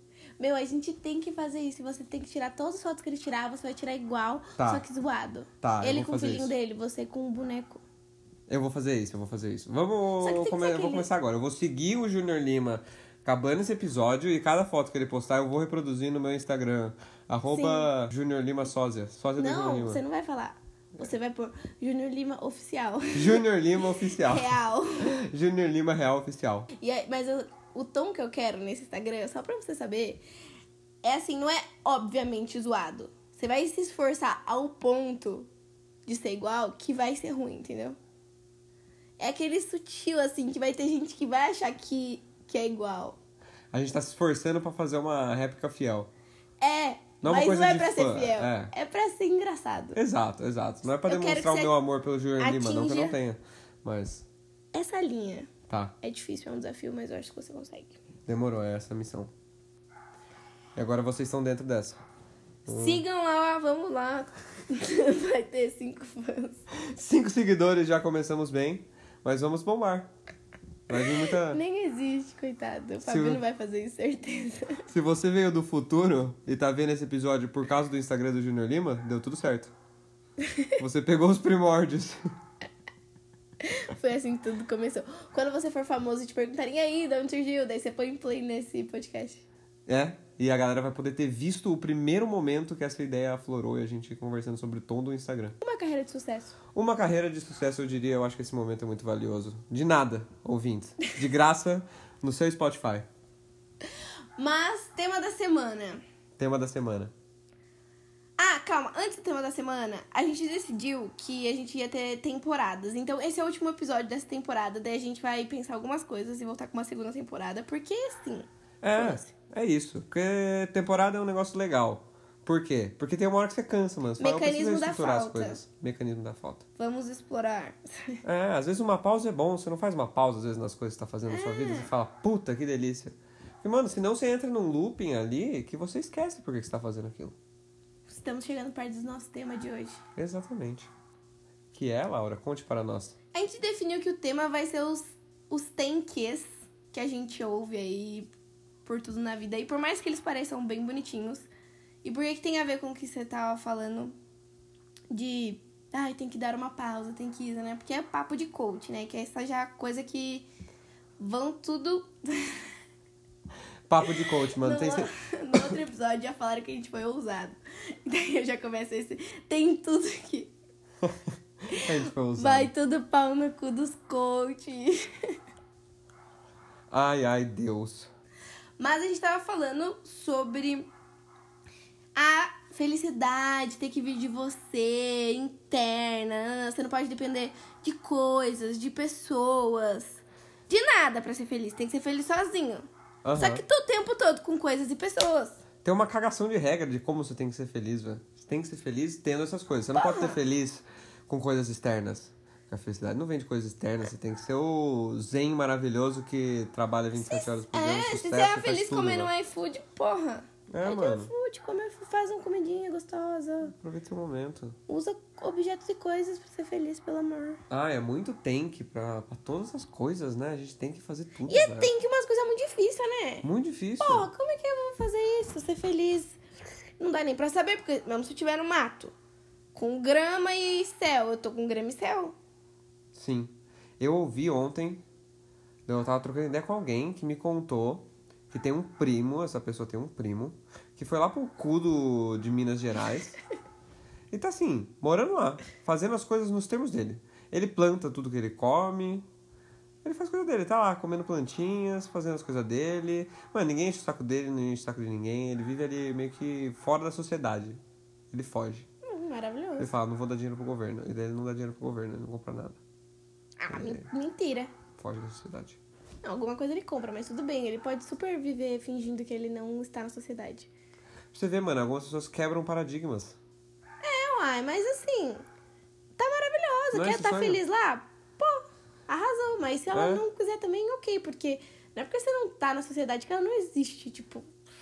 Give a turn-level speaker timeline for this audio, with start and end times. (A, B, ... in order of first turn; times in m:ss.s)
0:00.4-0:07.8 A
0:04.6-0:04.8 B
0:05.6-0:06.5 B
0:08.5-0:20.0 B
0:10.2-0:11.1 A
0:17.5-0:17.9 A
0:19.4-0:23.4 A
0:23.1-0:26.7 B
0:24.1-0:25.1 A
0:26.8-0:30.2 A
0:31.0-0:35.5 A
0:36.0-0:38.0 A
0:39.2-0:43.2 A
0:43.7-0:46.1 B
0:46.6-0:50.0 A
0:47.2-0:48.7 B
0:49.9-0:54.2 B
0:51.1-0:51.7 A
0:52.4-0:53.2 A
0:54.7-0:57.9 A
0:55.7-0:55.9 B
0:58.3-0:59.3 B
1:00.8-1:02.0 B
1:02.6-1:03.0 B
1:02.7-1:06.6 A
1:06.8-1:10.1 B
1:10.9-1:11.6 B
1:11.3-1:14.9 A
1:13.0-1:13.4 B
1:14.9-1:19.7 B
1:20.4-1:20.7 A
1:20.8-1:22.2 B
1:23.6-1:29.4 A
1:29.9-1:35.6 B
1:35.6-1:36.6 A
1:36.7-1:43.0 B
1:44.4-1:46.0 A
1:46.4-1:47.1 B
1:48.4-1:59.3 A
1:58.8-2:06.6 B
2:04.2-2:05.6 A
2:06.8-2:08.2 A
2:08.2-2:17.3 B
2:11.3-2:11.9 A
2:18.1-2:20.0 A
2:20.2-2:20.9 B
2:21.7-2:23.2 B
2:23.3-2:28.3 A
2:28.8-2:31.5 A
2:32.0-2:34.1 A
2:35.1-2:40.5 A
2:41.2-2:42.6 A
2:43.9-2:45.6 B
2:44.2-2:50.5 A
2:51.7-2:52.7 B
2:51.7-2:55.0 A
2:56.9-2:58.1 B
2:58.8-3:00.9 A
3:02.2-3:12.8 A
3:13.2-3:13.6 B
3:13.4-3:15.6 A
3:15.8-3:29.3 B
3:19.9-3:20.4 A
3:27.1-3:33.7 A
3:30.7-3:31.3 B
3:33.7-3:34.8 B
3:34.9-3:37.6 A
3:37.7-3:41.9 B
3:41.5-3:43.5 A
3:43.4-3:44.3 B
3:44.0-3:46.4 A
3:47.0-3:49.1 A
3:49.7-3:52.3 A
3:53.1-3:55.0 B
3:55.8-4:03.4 B
4:04.3-4:09.2 B
4:10.0-4:17.8 B
4:18.3-4:18.9 B
4:19.0-4:19.9 A
4:19.8-4:22.8 B
4:23.6-4:24.7 A
4:23.7-4:24.1 B
4:25.0-4:25.8 B
4:26.2-4:30.7 A
4:31.3-4:33.4 B
4:34.0-4:35.4 A
4:36.2-4:44.5 A
4:36.9-4:37.6 B
4:39.9-4:40.2 B